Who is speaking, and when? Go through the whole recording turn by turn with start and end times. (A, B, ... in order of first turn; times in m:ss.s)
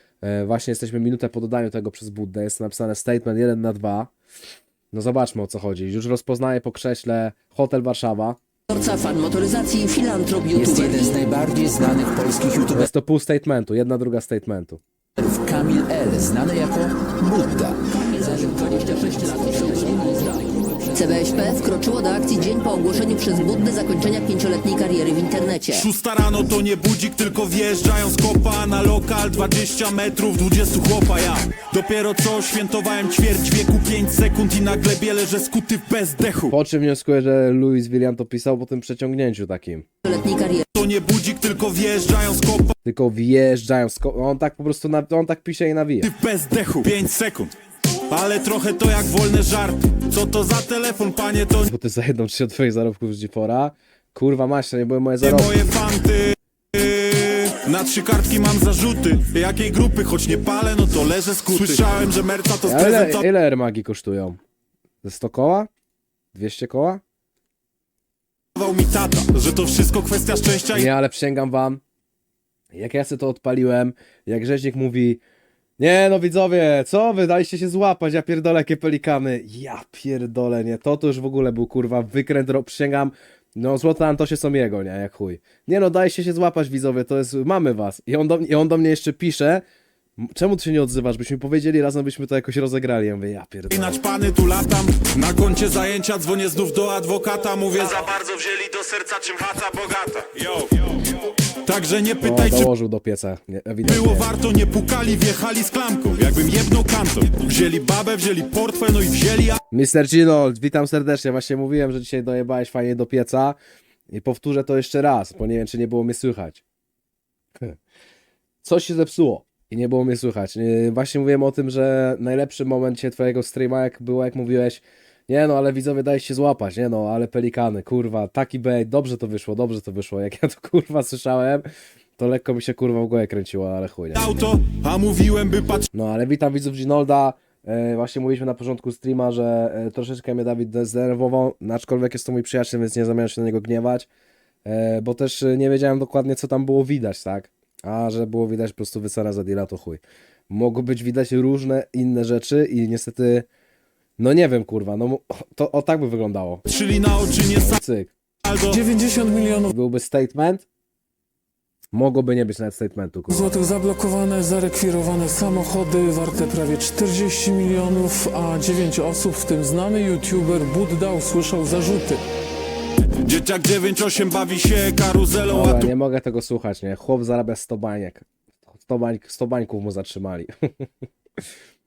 0:00.2-0:04.1 A
0:04.9-0:08.4 A
0:08.7-0:11.2 B
0:10.5-0:12.9 C
0:12.7-0:14.8 A
0:15.2-0:18.0 C
0:18.0-0:20.3 B
0:19.0-0:20.7 C
0:20.9-0:25.9 B
0:25.7-0:36.5 D
0:36.5-0:39.9 A
0:40.0-0:40.7 B
0:40.7-0:42.8 D
0:42.8-0:46.1 A
0:46.0-0:47.6 D
0:48.1-0:51.7 D
0:51.6-0:55.6 A
0:55.2-1:03.3 D
1:02.6-1:04.4 A
1:05.0-1:05.7 A
1:06.3-1:07.0 A
1:08.6-1:10.9 D
1:10.7-1:11.8 A
1:12.7-1:15.2 A
1:15.8-1:29.6 A
1:30.2-1:34.0 A
1:33.7-1:42.7 D
1:42.2-1:44.3 A
1:43.8-1:49.6 D
1:49.7-1:53.6 A
1:54.1-1:56.6 A
1:58.6-2:11.7 A
2:12.2-2:14.3 A
2:14.1-2:15.9 D
2:15.9-2:24.1 A
2:24.6-2:33.5 A
2:34.2-2:36.6 A
2:36.7-2:37.8 D
2:37.6-2:38.1 A
2:38.4-2:38.8 D
2:38.7-2:39.7 E
2:39.7-2:40.7 A
2:41.9-2:43.5 A
2:43.3-2:52.2 E
2:53.2-2:55.9 D
2:55.5-3:00.9 A